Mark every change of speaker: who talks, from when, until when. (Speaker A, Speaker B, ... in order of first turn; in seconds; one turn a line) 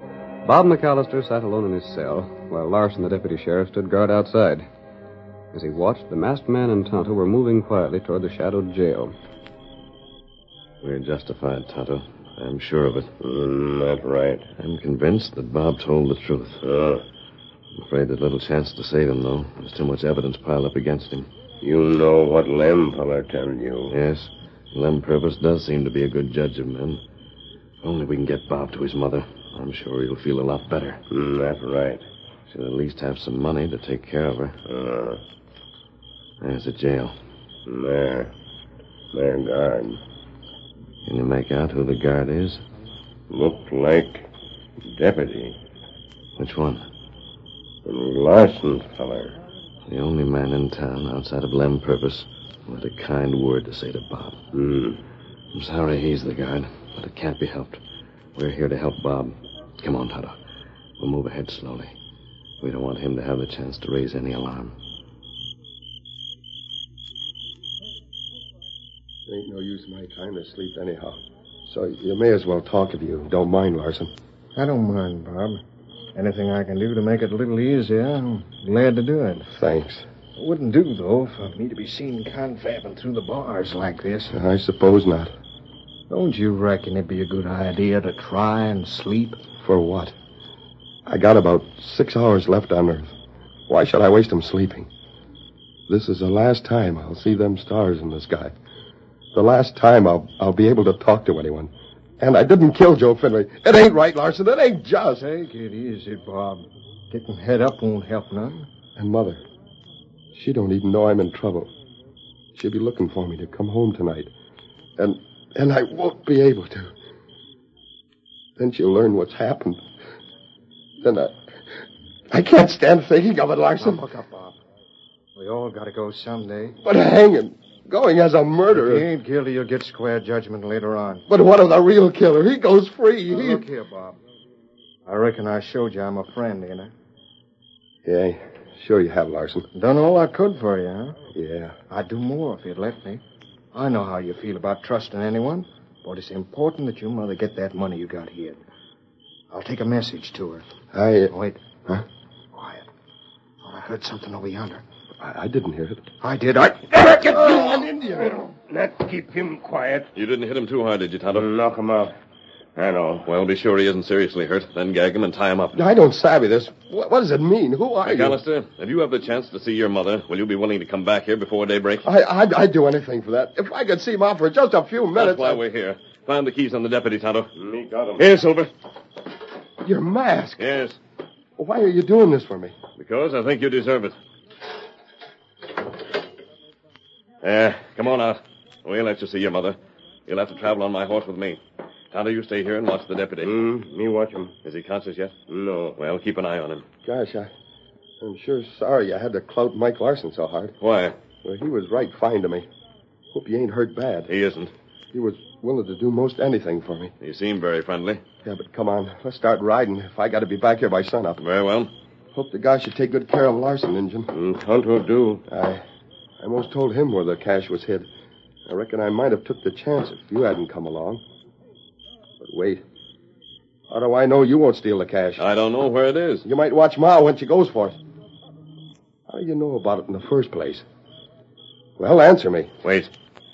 Speaker A: 0.5-4.7
Speaker A: 5.5-9.1
Speaker B: 10.8-13.1
Speaker C: 13.2-14.4
Speaker B: 14.6-16.6
Speaker C: 16.6-17.0
Speaker B: 17.8-21.3
Speaker C: 21.6-23.9
Speaker B: 23.9-27.0
Speaker B: 27.8-31.0
Speaker C: 31.1-32.0
Speaker B: 32.5-34.5
Speaker C: 34.7-35.2
Speaker B: 36.4-37.1
Speaker C: 37.7-38.3
Speaker C: 39.1-40.0
Speaker B: 41.1-42.6
Speaker C: 43.3-44.3
Speaker C: 44.9-45.6
Speaker B: 46.4-46.8
Speaker C: 47.9-49.3
Speaker B: 49.9-54.4
Speaker C: 54.5-55.0
Speaker B: 55.5-57.8
Speaker B: 58.4-60.3
Speaker B: 61.0-61.9
Speaker B: 62.6-64.7
Speaker D: 69.3-74.1
Speaker E: 74.6-75.6
Speaker E: 76.2-79.5
Speaker D: 79.5-80.0
Speaker E: 80.4-84.4
Speaker D: 84.3-85.3
Speaker E: 86.1-89.4
Speaker D: 89.6-90.2
Speaker D: 91.1-93.1
Speaker D: 93.7-94.9
Speaker D: 95.9-98.5
Speaker D: 99.3-105.2
Speaker E: 105.2-108.7
Speaker D: 109.0-109.4
Speaker D: 110.3-111.7
Speaker D: 112.5-114.3
Speaker D: 115.0-116.9
Speaker D: 118.6-119.8
Speaker D: 121.0-121.4
Speaker D: 122.3-124.0
Speaker E: 123.8-124.6
Speaker E: 125.4-126.8
Speaker D: 126.8-129.1
Speaker E: 128.7-131.2
Speaker D: 131.3-133.7
Speaker E: 133.3-134.2
Speaker E: 135.1-136.9
Speaker D: 138.1-139.7
Speaker E: 139.7-141.2
Speaker D: 141.3-141.8
Speaker E: 141.9-143.2
Speaker E: 143.7-148.6
Speaker E: 149.5-150.7
Speaker D: 150.9-151.3
Speaker E: 151.3-151.6
Speaker E: 152.5-152.9
Speaker E: 153.6-154.8
Speaker D: 155.2-156.1
Speaker E: 156.2-157.6
Speaker D: 157.3-158.4
Speaker C: 158.4-160.1
Speaker B: 160.2-161.5
Speaker C: 161.3-162.1
Speaker C: 162.8-163.3
Speaker B: 163.2-165.8
Speaker D: 165.7-168.4
Speaker B: 168.0-172.1
Speaker D: 172.0-175.6
Speaker B: 175.2-177.5
Speaker C: 177.6-178.2
Speaker B: 178.2-178.7
Speaker D: 179.8-180.6
Speaker B: 180.6-181.0
Speaker D: 181.6-182.8
Speaker B: 183.0-184.2
Speaker B: 187.4-191.6
Speaker B: 192.1-193.5
Speaker C: 193.4-194.5
Speaker B: 194.6-195.4
Speaker C: 195.5-196.0
Speaker B: 196.0-196.8
Speaker D: 197.1-197.5
Speaker D: 198.2-200.8
Speaker B: 200.8-201.2
Speaker D: 201.4-202.7
Speaker D: 203.3-204.3
Speaker B: 204.3-204.7
Speaker D: 205.1-207.1
Speaker B: 207.2-208.2
Speaker D: 208.4-211.4
Speaker B: 211.4-211.9
Speaker D: 212.3-214.3
Speaker C: 214.3-215.4
Speaker D: 215.5-215.8
Speaker D: 216.4-218.1
Speaker D: 218.7-221.2
Speaker D: 222.4-222.8
Speaker D: 223.9-225.4
Speaker B: 225.4-226.4
Speaker D: 226.4-228.0
Speaker D: 229.3-230.8
Speaker D: 232.0-232.7
Speaker B: 232.8-233.1